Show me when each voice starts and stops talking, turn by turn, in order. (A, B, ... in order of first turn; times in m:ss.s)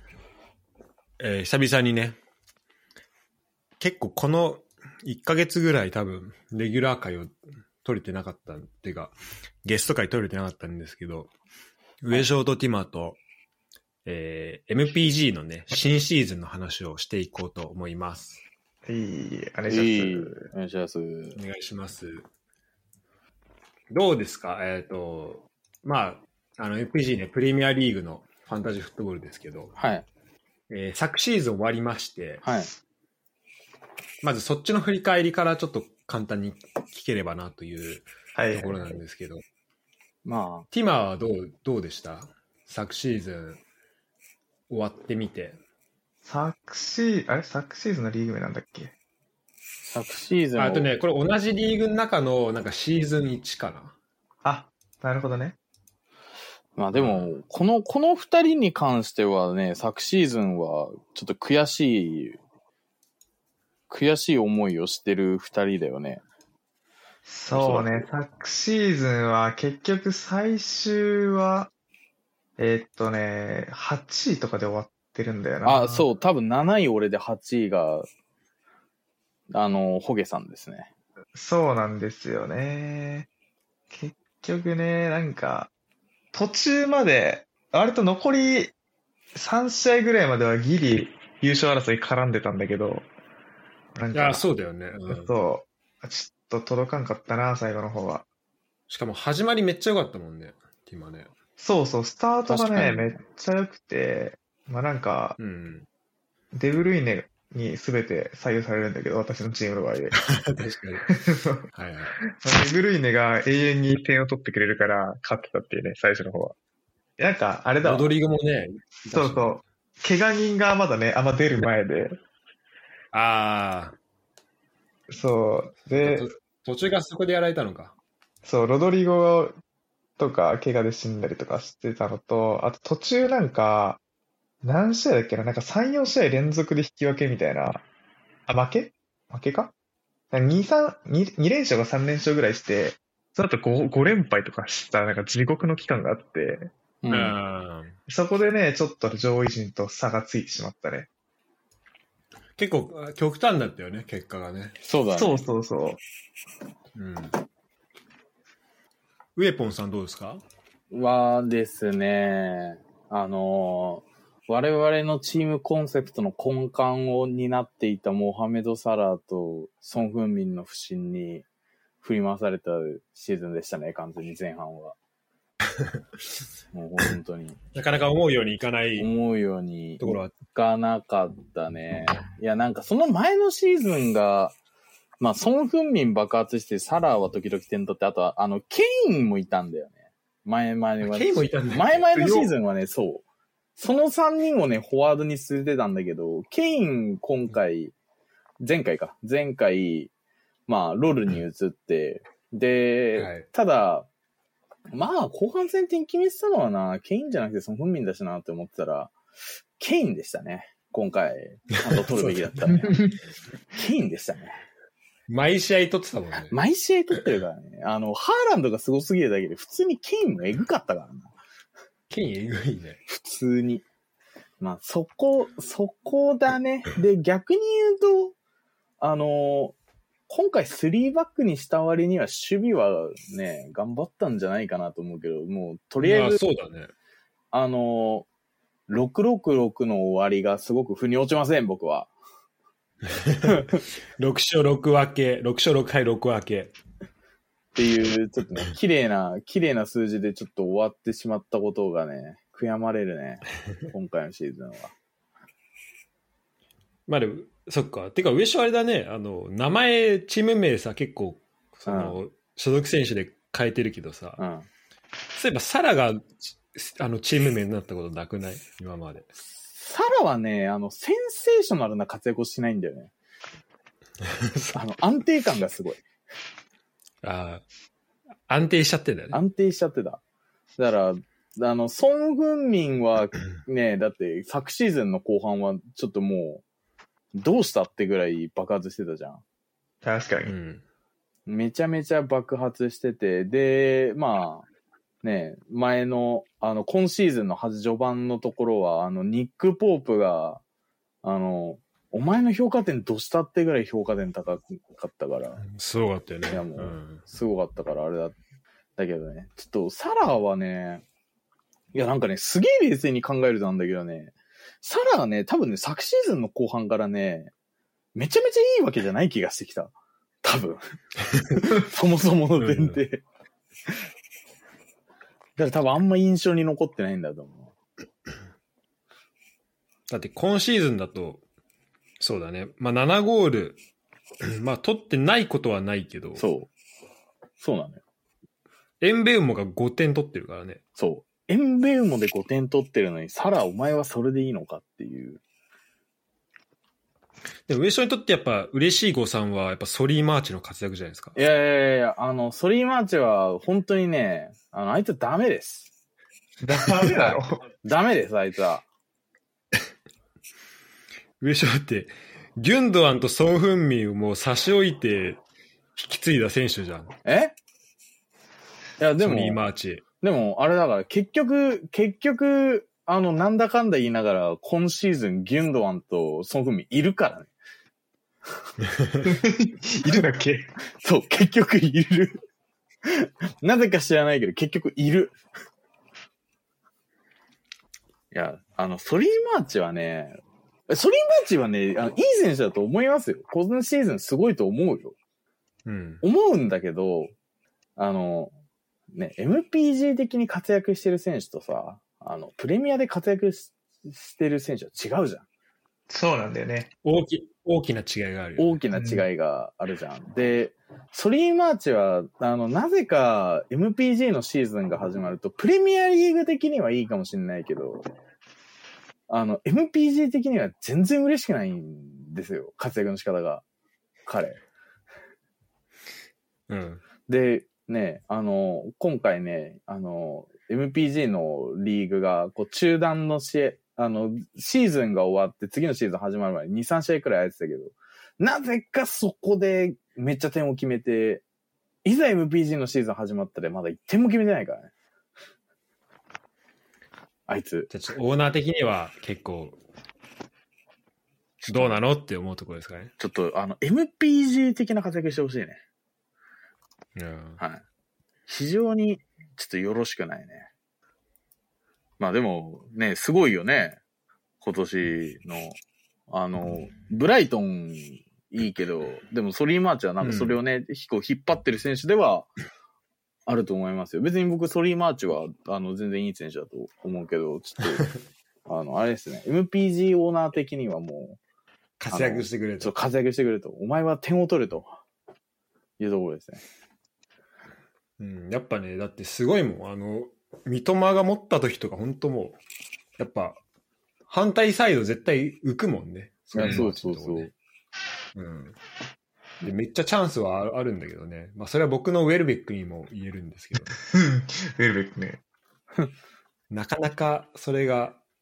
0:01.2-0:02.2 A
0:03.8-0:11.3 A
0:12.0-0:13.2 A
0:14.0-0:18.4 A
0:18.8-0:20.4 B
0:19.7-0:21.4 C
0:21.4-0:22.2 A
0:23.9-0:29.7 A
0:29.8-0:30.1 C
0:30.7-0:32.4 A
0:32.4-0:32.7 C
0:34.2-0:39.4 A
0:38.4-0:38.9 B
0:40.2-0:40.7 C
0:40.7-0:43.6 A
0:44.7-0:45.6 A
0:46.2-0:48.9 B
0:49.8-0:50.9 C
0:50.6-0:54.0 A
0:54.4-0:55.6 B
0:56.8-1:02.4 C
0:56.9-0:57.3 A
1:03.9-1:06.2 C
1:07.3-1:11.7 B
1:07.5-1:08.1 C
1:12.6-1:16.1 B
1:15.6-1:18.1 C
1:19.5-1:20.9 C
1:21.4-1:23.3 B
1:23.9-1:25.7 B
1:26.3-1:28.7 B
1:29.4-1:33.1 B
1:34.0-1:34.5 B
1:34.1-1:35.3 A
1:35.1-1:38.3 B
1:38.9-1:41.3 A
1:41.6-1:45.4 B
1:42.5-1:43.2 C
1:45.4-1:45.9 A
1:46.5-1:50.2 B
1:50.2-1:51.1 A
1:51.1-1:51.6 B
1:51.7-1:52.2 A
1:52.3-1:56.6 B
1:57.2-1:58.1 B
1:57.8-1:59.6 A
1:59.1-2:02.2 B
2:03.1-2:04.0 A
2:05.1-2:06.3 B
2:05.9-2:08.0 A
2:08.4-2:09.6 B
2:10.2-2:14.0 B
2:14.6-2:17.8 B
2:18.5-2:19.7 B
2:20.3-2:26.7 B
2:27.0-2:27.4 C
2:27.1-2:28.0 A
2:28.1-2:31.1 B
2:32.6-2:34.8 A
2:34.8-2:35.4 C
2:35.2-2:36.0 B
2:37.0-2:37.3 A
2:39.4-2:40.4 A
2:40.9-2:51.5 C
2:52.0-2:55.0 C
2:56.7-2:57.6 C
2:57.8-2:59.1 A
2:59.0-3:04.6 C
3:00.0-3:00.3 A
3:05.2-3:13.2 C
3:11.0-3:12.5 A
3:13.8-3:18.0 C
3:18.6-3:20.1 C
3:20.7-3:24.1 C
3:23.2-3:23.5 A
3:24.9-3:29.2 C
3:29.8-3:33.1 C
3:31.7-3:32.9 A
3:33.7-3:34.6 C
3:35.3-3:36.6 A
3:36.5-3:41.3 C
3:42.1-3:43.0 A
3:43.1-3:43.8 C
3:44.6-3:48.4 C
3:49.0-3:49.8 C
3:50.3-3:56.4 C
3:56.0-3:56.9 A
3:57.5-3:58.3 C
3:58.9-4:02.1 C
4:03.1-4:06.8 A
4:03.4-4:03.8 C
4:07.8-4:14.9 C
4:17.1-4:24.4 A
4:21.9-4:22.2 C
4:24.4-4:24.7 C
4:25.4-4:29.3 A
4:29.6-4:33.1 C
4:34.2-4:34.8 A
4:34.7-4:36.0 C
4:37.2-4:37.6 A
4:38.5-4:39.4 A
4:39.3-4:40.2 C
4:40.8-4:46.6 C
4:47.4-4:49.4 C
4:50.0-4:50.5 B
4:50.5-4:50.8 A
4:51.5-4:54.7 C
4:55.2-5:00.6 C
5:01.2-5:05.7 C
5:05.6-5:07.2 A
5:06.5-5:08.4 C
5:09.0-5:11.0 C
5:11.9-5:17.5 C
5:18.2-5:20.8 C
5:21.5-5:23.2 C
5:22.6-5:23.0 A
5:25.6-5:27.7 C
5:30.1-5:31.4 A
5:32.2-5:33.8 A
5:34.4-5:36.4 A
5:36.4-5:36.7 C
5:37.6-5:38.0 C
5:39.0-5:40.8 A
5:41.0-5:45.4 C
5:47.7-5:51.4 A
5:51.4-5:55.9 C
5:56.6-5:57.6 B
5:57.2-5:58.8 C
6:01.4-6:05.4 A
6:06.0-6:07.1 A
6:07.2-6:07.6 C
6:09.0-6:09.6 C
6:09.2-6:10.0 A
6:10.2-6:17.5 C
6:18.8-6:19.2 A
6:19.2-6:20.7 B
6:21.0-6:22.4 C
6:23.0-6:25.4 C
6:28.3-6:35.2 C
6:35.8-6:36.2 A
6:36.2-6:37.3 C
6:38.0-6:38.5 C
6:39.1-6:45.4 C
6:46.1-6:46.9 B
6:47.0-6:48.8 A
6:48.6-6:58.1 C
6:48.9-6:49.3 B
6:59.3-7:03.6 C
7:04.3-7:04.6 C
7:06.7-7:07.0 A
7:07.3-7:21.4 C
7:22.0-7:24.9 C
7:27.5-7:27.9 C
7:27.9-7:29.8 A
7:31.6-7:32.0 C
7:31.7-7:33.1 A
7:33.2-7:35.8 C
7:37.2-7:37.6 A
7:38.5-7:40.7 C
7:42.2-7:44.0 C
7:44.6-7:45.8 C
7:46.3-7:52.5 C
7:50.2-7:50.6 A
7:53.5-8:01.4 C
8:02.0-8:03.0 A
8:02.1-8:05.0 C
8:06.0-8:06.6 C
8:08.2-8:12.6 A
8:13.2-8:13.6 A
8:14.3-8:17.5 A
8:16.6-8:17.5 C
8:16.6-8:16.9 B
8:18.4-8:18.8 A
8:19.6-8:24.0 A
8:24.1-8:25.4 B
8:26.7-8:28.2 A